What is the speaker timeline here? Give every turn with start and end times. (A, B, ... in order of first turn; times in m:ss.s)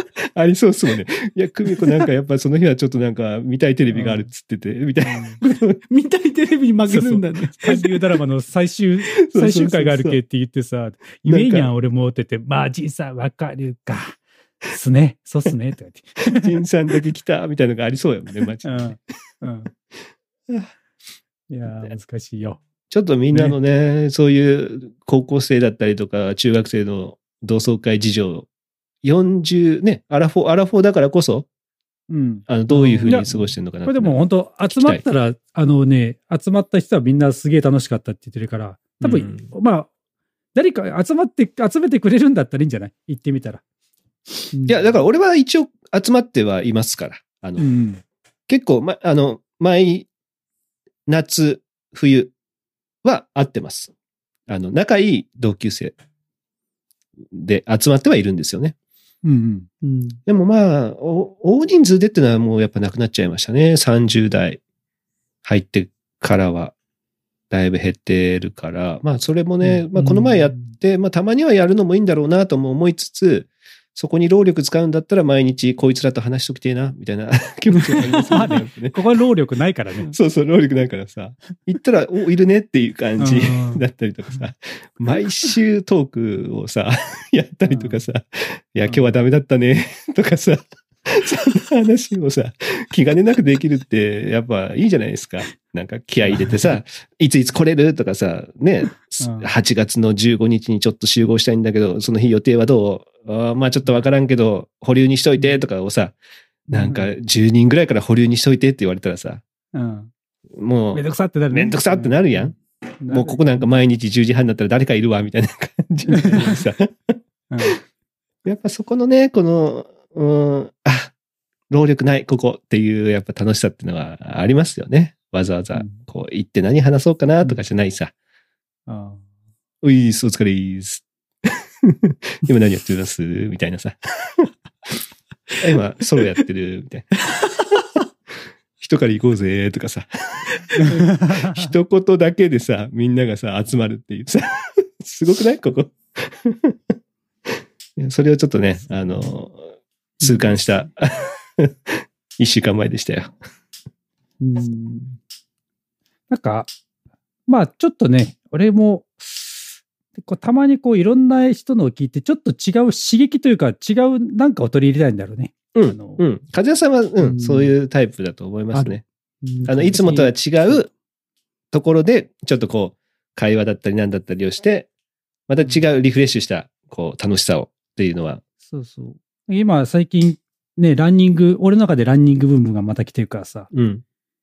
0:00.4-0:05.8 A
0:03.9-0:04.3 B
0:05.0-0:05.4 B
0:05.9-0:07.9 C
0:06.9-0:16.5 B
0:09.3-0:10.2 A
0:11.2-0:11.7 A
0:16.2-0:19.0 A
0:18.6-0:19.7 B
0:21.5-0:22.6 B
0:22.9-0:28.5 A
0:29.0-0:31.5 A
0:32.1-0:32.5 B
0:32.5-0:35.0 A
0:32.7-0:33.3 C
0:33.0-0:39.9 B
0:39.0-0:39.4 A
0:40.5-0:43.6 B
0:44.5-0:44.9 C
0:44.7-0:47.7 A
0:47.6-0:48.0 B
0:48.5-0:50.1 A
0:51.1-0:52.3 A
0:53.0-0:53.9 A
0:54.5-0:56.0 A
0:57.3-0:58.8 A
0:59.2-0:59.7 B
0:59.8-1:00.2 C
1:00.3-1:04.6 A
1:05.4-1:06.7 A
1:07.5-1:19.0 A
1:10.0-1:10.4 C
1:18.0-1:18.2 C
1:18.3-1:20.1 B
1:20.1-1:46.2 A
1:23.2-1:23.8 B
1:27.7-1:28.0 B
1:28.9-1:29.2 B
1:36.3-1:36.6 B
1:39.2-1:39.5 B
1:46.7-1:49.4 A
1:46.8-1:47.1 B
1:49.7-1:50.1 B
1:50.6-1:57.7 A
1:50.9-1:52.3 B
1:53.0-1:53.6 B
1:56.1-1:56.6 B
1:57.5-1:57.8 B
1:58.4-2:01.1 A
2:01.7-2:08.1 A
2:08.9-2:09.2 B
2:09.8-2:14.5 A
2:15.6-2:17.2 A
2:18.8-2:26.8 A
2:20.7-2:21.0 C
2:20.8-2:21.7 B
2:28.0-2:29.7 A
2:30.2-2:33.3 A
2:30.2-2:30.5 C
2:34.4-2:35.2 C
2:36.3-2:36.7 B
2:37.5-2:46.2 B
2:45.8-2:49.0 A
2:47.2-2:47.7 C
2:48.7-2:50.1 C
2:49.6-2:50.9 A
2:49.9-2:50.3 B
2:51.7-2:54.9 A
2:55.5-2:58.4 A
2:58.7-3:03.7 B
3:03.7-3:04.0 A